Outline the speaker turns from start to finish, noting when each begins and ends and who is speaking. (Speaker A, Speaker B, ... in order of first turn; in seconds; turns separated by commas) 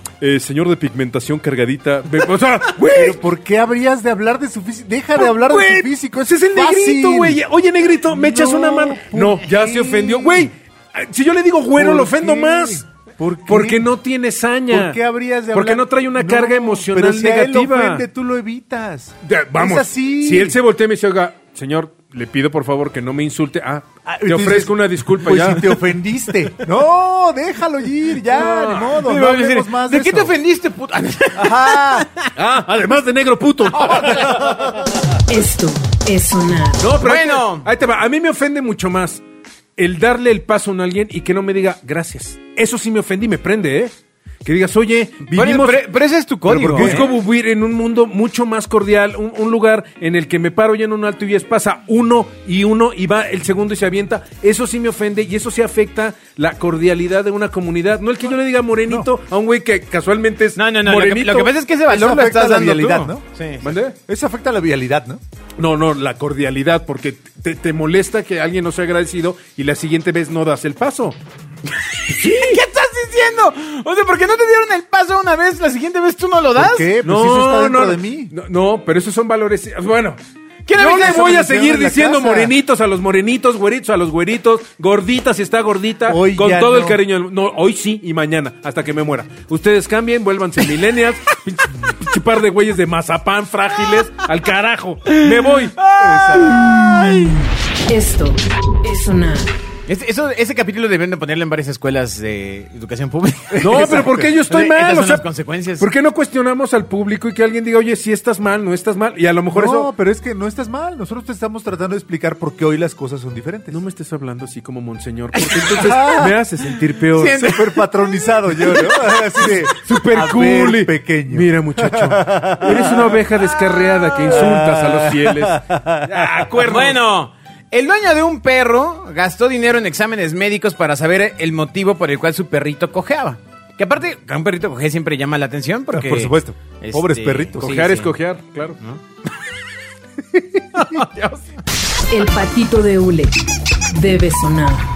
Speaker A: 0.2-3.2, Speaker B: 2.9-7.4, Speaker A: 5.2-12.8, Speaker B: 8.1-10.5, Speaker B: 11.8-13.9, Speaker A: 13.5-15.0, Speaker B: 14.7-20.6, Speaker A: 15.5-18.0, Speaker A: 19.2-25.8, Speaker B: 24.1-30.3, Speaker A: 28.3-29.0, Speaker C: 29.0-32.3, Speaker B: 31.4-32.1, Speaker A: 32.4-34.4, Speaker C: 33.8-34.6, Speaker D: 35.3-36.9, Speaker A: 36.8-39.2, Speaker C: 37.0-37.7, Speaker A: 39.8-43.9, Speaker A: 44.4-45.8, Speaker C: 45.3-47.1, Speaker B: 46.5-47.1, Speaker A: 46.6-61.5, Speaker C: 60.6-63.7, Speaker B: 61.9-63.2, Speaker A: 63.6-64.0, Speaker B: 64.1-65.2, Speaker A: 65.6-71.2, Speaker A: 72.1-72.6, Speaker C: 72.1-76.9, Speaker B: 76.6-78.3, Speaker A: 77.0-80.2, Speaker C: 80.7-81.4, Speaker A: 80.7-95.8, Speaker B: 80.8-82.5, Speaker B: 86.1-87.0, Speaker C: 95.2-97.4, Speaker B: 96.0-97.4, Speaker D: 97.9-99.5, Speaker C: 99.9-105.9, Speaker B: 103.5-104.3, Speaker A: 103.6-105.2, Speaker A: 105.8-109.9, Speaker B: 109.5-113.8, Speaker A: 113.7-117.5, Speaker C: 115.5-116.0, Speaker B: 115.7-116.4, Speaker C: 117.1-119.2, Speaker B: 117.2-123.2, Speaker A: 119.4-127.0, Speaker B: 124.3-126.5, Speaker C: 126.6-138.1, Speaker B: 135.9-137.8, Speaker A: 137.6-138.8, Speaker B: 140.3-141.0, Speaker C: 140.8-141.5, Speaker D: 142.1-144.9